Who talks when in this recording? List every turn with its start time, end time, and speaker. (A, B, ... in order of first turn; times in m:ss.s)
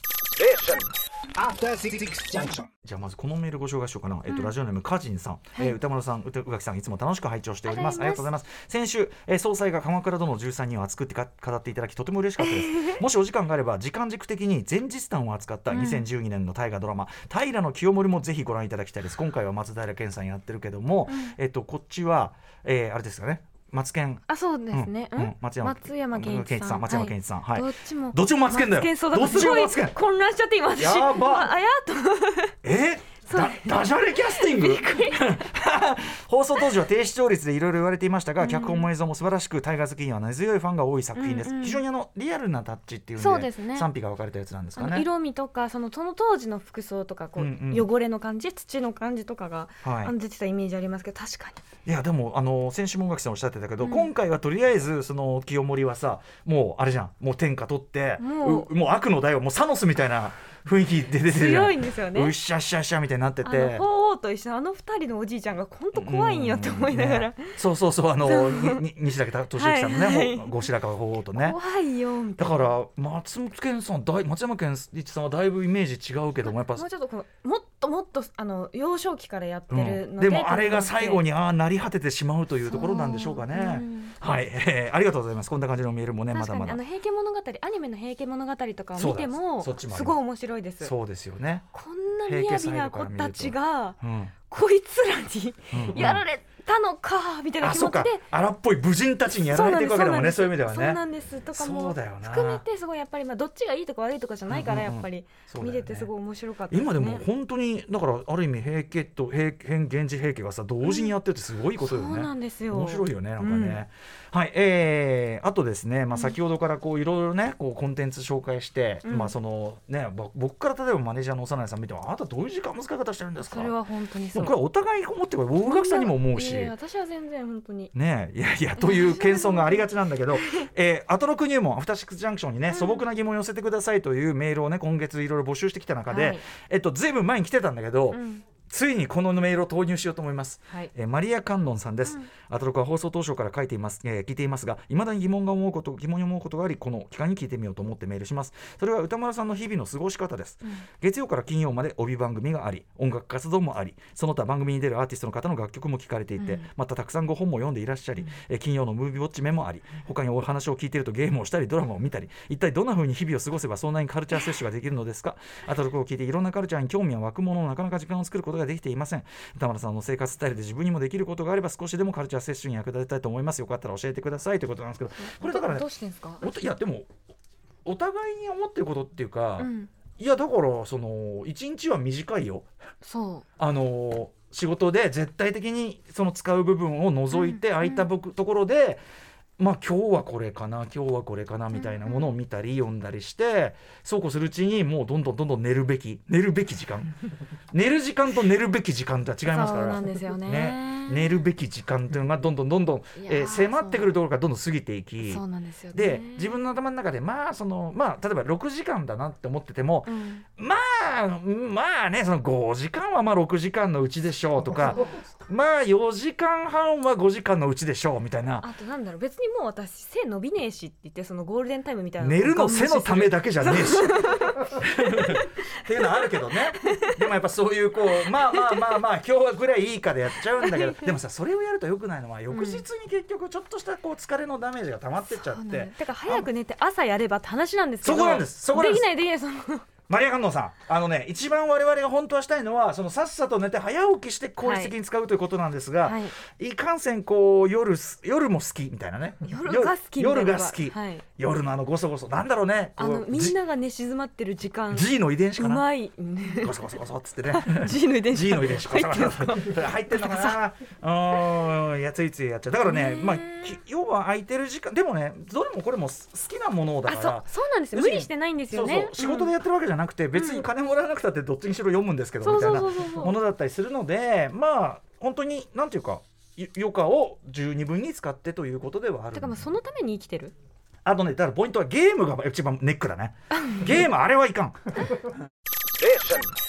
0:00.4-0:02.7 A
0:02.8-0:30.0 B
0:04.3-0:04.5 C
0:07.6-0:08.3 C
0:12.4-0:13.0 C
0:15.7-0:16.0 C
0:21.1-0:21.3 C
0:24.3-0:32.5 C
0:30.8-0:31.5 B
0:32.6-0:45.1 B
0:33.3-0:35.5 C
0:38.4-0:38.9 C
0:41.2-0:41.8 C
0:43.2-0:43.9 C
0:44.8-0:51.6 C
0:47.4-0:47.9 B
0:49.8-0:50.1 B
0:51.8-1:03.8 B
0:53.8-0:54.1 C
0:58.2-0:58.7 C
1:01.2-1:02.3 C
1:03.4-1:07.5 C
1:05.9-1:11.6 B
1:08.2-1:08.8 C
1:09.5-1:10.7 C
1:11.3-1:12.7 C
1:12.4-1:16.8 B
1:16.4-1:21.2 C
1:19.7-1:26.8 B
1:22.7-1:24.2 C
1:26.3-1:30.9 C
1:29.0-1:30.2 B
1:30.8-1:31.6 B
1:31.7-1:38.2 C
1:32.2-1:34.3 B
1:35.7-1:36.2 B
1:37.6-1:41.0 B
1:39.3-1:47.2 C
1:41.5-1:42.6 B
1:44.5-1:46.1 B
1:46.7-2:03.7 B
1:50.8-1:51.1 C
1:51.8-1:53.8 C
1:56.1-1:56.4 C
1:59.0-1:59.3 C
2:03.4-2:04.5 C
2:04.3-2:06.7 B
2:05.6-2:07.9 C
2:07.9-2:55.9 B
2:08.8-2:10.7 C
2:12.7-2:13.0 C
2:16.1-2:16.4 C
2:18.1-2:18.4 C
2:36.4-2:36.7 C
2:55.2-2:56.4 C
2:56.4-2:57.1 B
2:57.8-3:02.7 B
2:59.6-2:59.9 C
3:03.0-3:03.4 C
3:03.6-3:09.0 B
3:07.3-3:08.1 C
3:09.6-3:17.1 B
3:11.7-3:12.3 C
3:17.7-3:38.7 B
3:19.4-3:21.4 C
3:23.2-3:24.2 C
3:25.2-3:26.6 C
3:30.0-3:30.4 C
3:34.7-3:35.2 C
3:38.6-3:47.2 C
3:42.2-3:56.5 B
3:48.2-3:49.0 C
3:50.5-3:51.1 C
3:52.5-3:52.8 C
3:55.3-3:59.9 C
3:58.0-3:59.1 B
4:00.1-4:13.6 B
4:04.6-4:04.9 C
4:06.0-4:06.4 C
4:09.4-4:11.2 C
4:13.0-4:20.6 C
4:14.9-4:15.8 B
4:16.6-4:39.7 B
4:22.8-4:23.8 C
4:27.0-4:29.5 C
4:30.3-4:30.6 C
4:32.4-4:33.3 C
4:39.3-4:40.5 C
4:41.0-4:44.8 B
4:46.0-4:46.5 A